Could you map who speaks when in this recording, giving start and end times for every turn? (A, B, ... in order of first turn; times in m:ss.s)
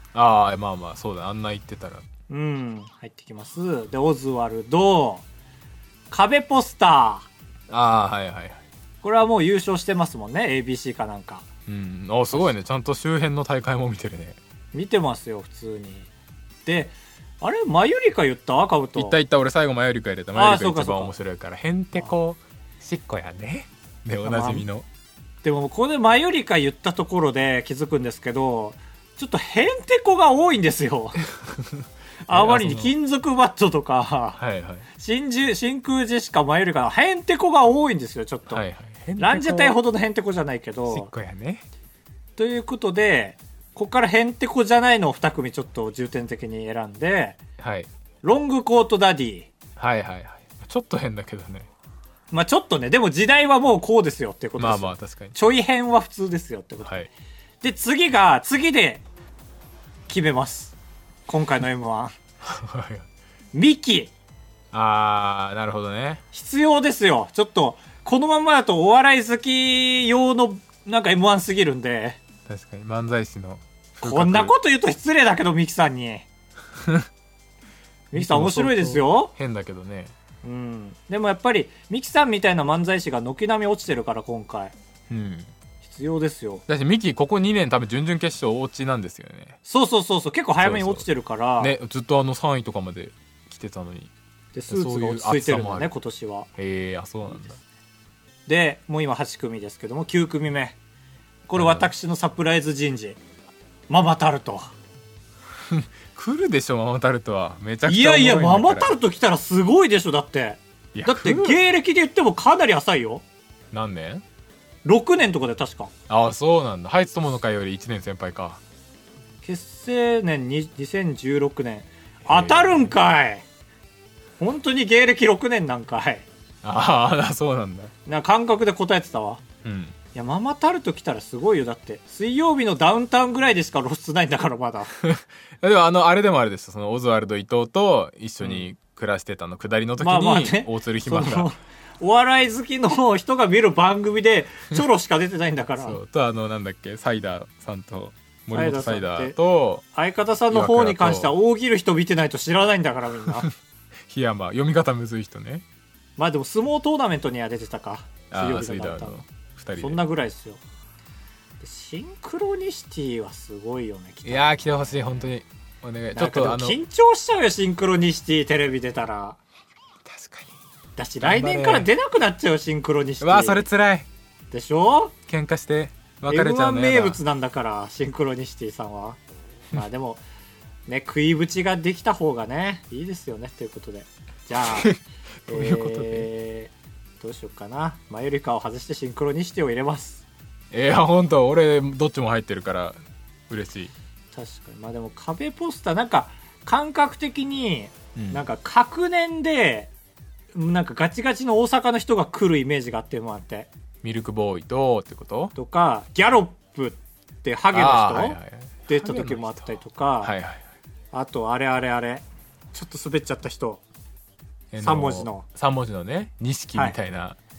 0:00.1-0:02.1 A
0:02.3-0:05.2 B
0:06.1-0:07.3 B
0:07.7-0:08.6 A
0:09.0-0:11.4 B
0:11.7-0:14.4 A
0:14.7-0:16.1 B
0:16.6-0:19.2 B
0:19.0-0:24.9 A
0:20.4-0:21.1 B
0:24.2-0:24.6 B
0:25.4-0:31.2 B
0:31.3-0:32.9 A
0:32.3-0:34.4 B
0:34.4-0:34.9 A
0:34.9-0:38.6 B
0:38.5-0:39.8 A
0:39.2-0:41.1 B
0:40.9-0:41.6 A
0:42.4-0:47.4 B
0:47.6-0:47.9 A
0:48.2-0:49.5 B
0:49.8-0:51.7 A
0:52.3-0:57.0 B
0:54.6-0:55.4 A
0:57.6-0:59.0 B
1:00.1-1:02.1 B
1:02.4-1:03.1 A
1:03.5-1:04.1 B
1:04.7-1:06.2 A
1:06.3-1:12.2 B
1:12.4-1:14.5 A
1:14.0-1:16.3 B
1:16.8-1:17.1 A
1:18.1-1:19.3 B
1:18.1-1:20.1 A
1:20.4-1:24.8 B
1:25.1-1:25.5 A
1:25.8-1:26.6 B
1:26.7-1:29.6 A
1:29.6-1:31.8 B
1:30.6-1:31.0 A
1:31.6-1:34.1 A
1:34.5-1:36.5 B
1:34.7-1:35.9 A
1:36.6-1:37.6 A
1:38.5-1:40.8 B
1:41.5-1:43.2 B
1:41.6-1:41.9 A
1:43.9-1:44.7 B
1:45.7-1:49.0 A
1:47.9-1:53.2 B
1:50.9-1:51.6 A
1:53.7-1:54.2 A
1:54.8-1:55.9 B
1:56.1-1:58.6 A
1:59.4-2:03.4 B
2:02.3-2:02.9 A
2:04.4-2:06.3 B
2:06.6-2:07.9 A
2:08.1-2:09.4 B
2:09.6-2:10.0 A
2:10.1-2:14.9 B
2:15.0-2:21.5 A
2:20.0-2:26.0 B
2:25.8-2:29.8 A
2:28.5-2:29.4 B
2:29.9-2:33.5 B
2:30.5-2:31.4 A
2:34.1-2:35.6 A
2:36.2-2:39.2 B
2:38.3-2:40.0 A
2:39.8-2:40.6 B
2:41.6-2:45.3 B
2:44.2-2:46.8 A
2:46.1-2:49.4 B
2:50.1-2:50.6 A
2:51.0-2:53.7 B
2:51.2-2:51.9 A
2:53.2-2:54.1 A
2:54.5-2:55.1 B
2:55.3-2:57.2 A
2:56.3-2:59.2 B
2:59.7-3:00.2 B
3:00.9-3:04.9 B
3:04.6-3:06.3 A
3:05.5-3:10.2 B
3:10.7-3:13.0 A
3:13.5-3:13.9 A
3:14.3-3:19.9 B
3:18.2-3:18.4 A
3:20.5-3:23.7 B
3:24.0-3:25.5 A
3:25.6-3:30.3 B
3:27.7-3:30.6 A
3:31.1-3:33.8 B
3:34.7-3:37.4 A
3:34.8-3:35.4 B